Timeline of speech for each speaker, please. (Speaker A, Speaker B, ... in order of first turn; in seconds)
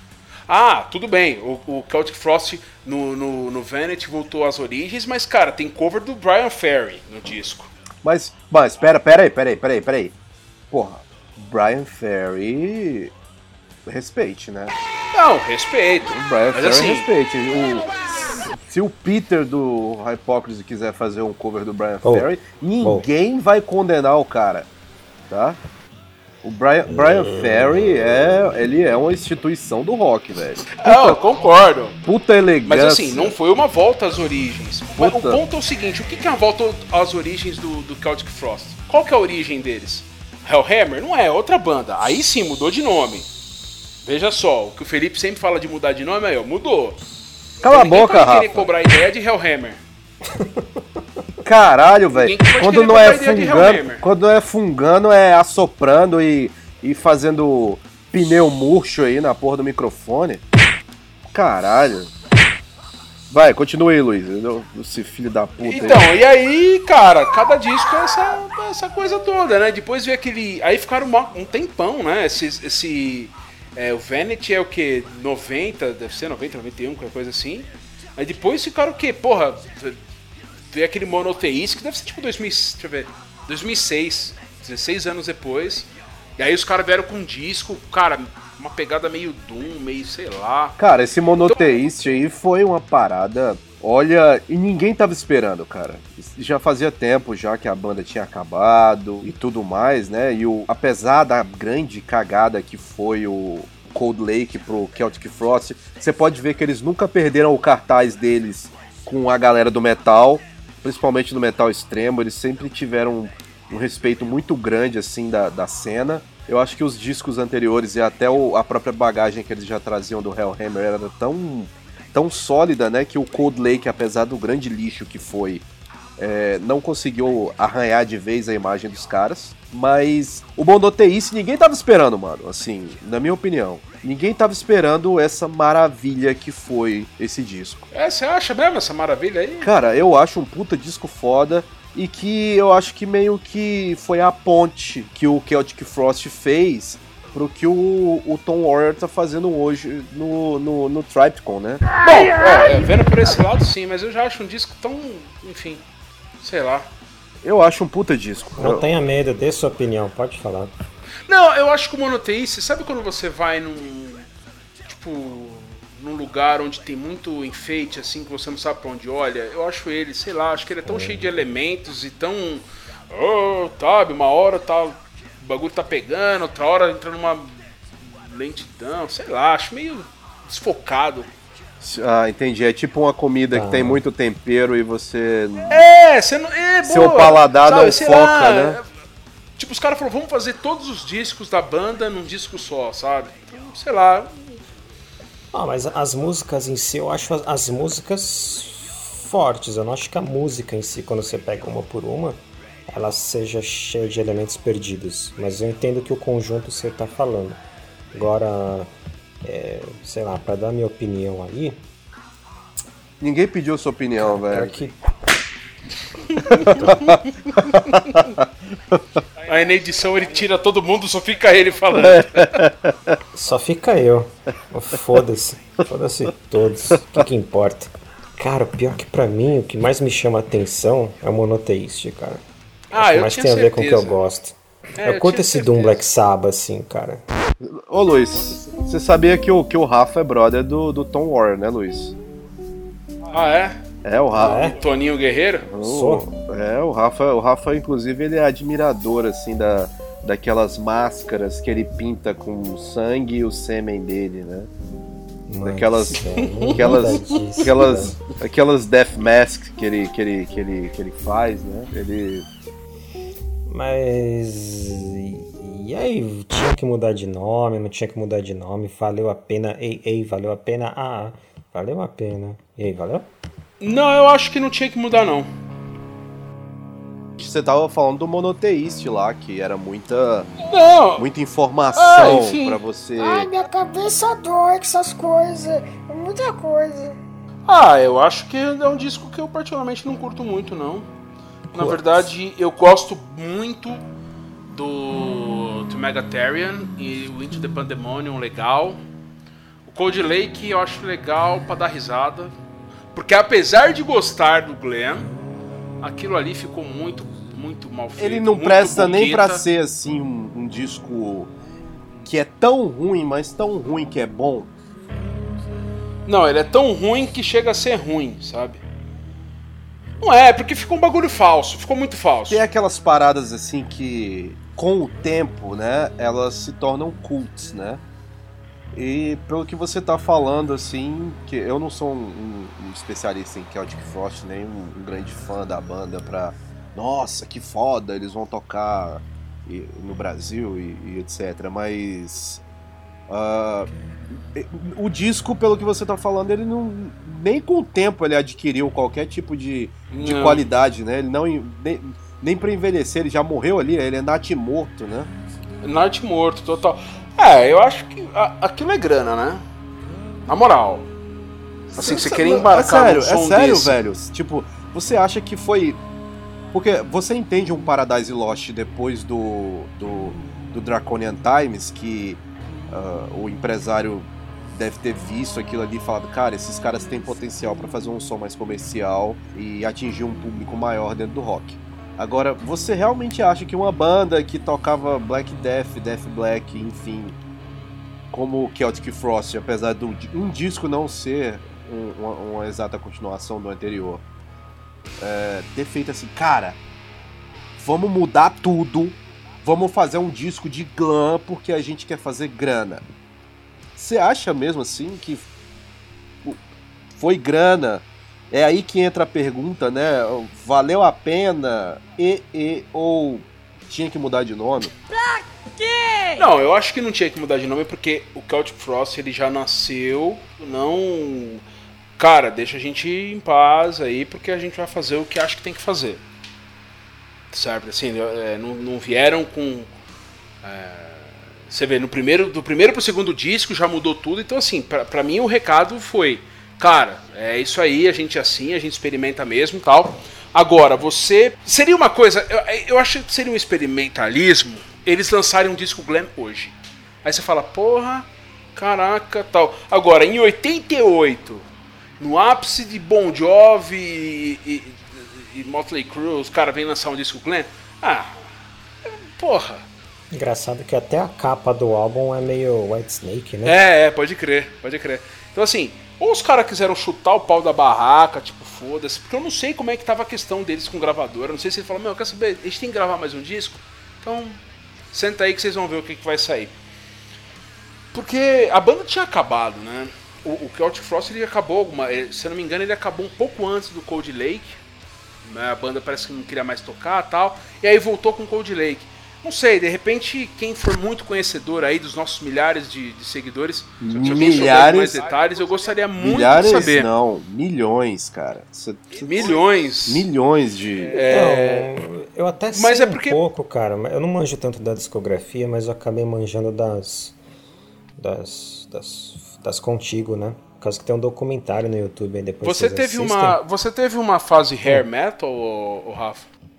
Speaker A: 0.5-7.7, 15.1-17.1, 30.8-32.0, 32.6-43.3, 44.0-47.0, 47.6-49.8, 52.1-54.0, 65.6-80.0, 80.7-90.8, 91.5-91.8, 137.9-139.7, 152.0-155.8, 156.4-156.9, 161.3-164.3, 164.9-177.5, 178.1-181.3, 185.7-188.8, 189.6-194.6, 216.3-217.1, 217.9-218.2, 219.5-222.5, 232.9-234.2, 235.0-236.0, 243.3-243.8, 244.4-245.7, 256.4-256.8, 273.8-275.5, 280.7-281.2, 281.9-282.8, 287.7-291.1, 291.7-294.0, 294.7-299.0, 299.9-302.5, 303.1-305.3, 306.0-309.6, 316.3-318.8, 320.2-322.6, 350.1-350.6, 355.8-359.6, 360.5-361.1, 361.9-364.0, 416.4-421.6, 422.2-426.2, 427.5-429.9, 430.6-451.6, 452.2-458.4, 459.0-459.8, 463.6-474.6, 475.1-476.7, 478.1-484.8, 485.4-497.1, 499.2-500.3, 501.1-502.0, 502.7-503.4, 512.6-516.5
Speaker B: 8.0-10.2, 10.7-13.1, 13.9-14.7, 16.1-18.0, 18.6-24.7, 25.3-25.6, 26.4-31.1, 32.0-33.3, 35.0-35.4, 47.6-48.7, 51.4-60.4, 61.3-62.1, 63.3-66.1, 90.8-125.6, 126.2-137.9, 139.6-151.9, 157.4-158.9, 181.8-185.8, 186.8-188.8, 213.2-214.8, 216.6-218.4, 222.0-223.2, 237.6-242.2, 244.0-244.7, 245.6-254.7, 255.6-256.2, 256.7-262.4, 277.4-280.5, 281.1-283.5, 291.7-292.2, 308.2-311.5, 312.2-314.7, 322.5-328.0, 328.9-342.6, 343.3-355.3, 361.9-366.0, 366.7-387.4, 388.3-394.2, 395.2-396.8, 397.8-403.0, 403.9-405.4, 407.1-414.9, 494.0-495.2, 496.2-501.2
Speaker C: 22.0-23.1, 26.9-28.6, 50.2-50.8, 158.6-160.7, 170.8-171.4, 183.5-184.0, 195.5-207.6, 208.1-208.9, 209.4-211.8, 214.2-215.0, 216.6-217.1, 223.3-232.4, 232.9-237.2, 244.3-244.8, 245.8-246.3, 255.5-258.2, 263.7-273.3, 460.3-463.8, 501.2-507.4, 508.2-513.6
Speaker D: 152.3-152.9, 283.2-287.2, 415.1-416.5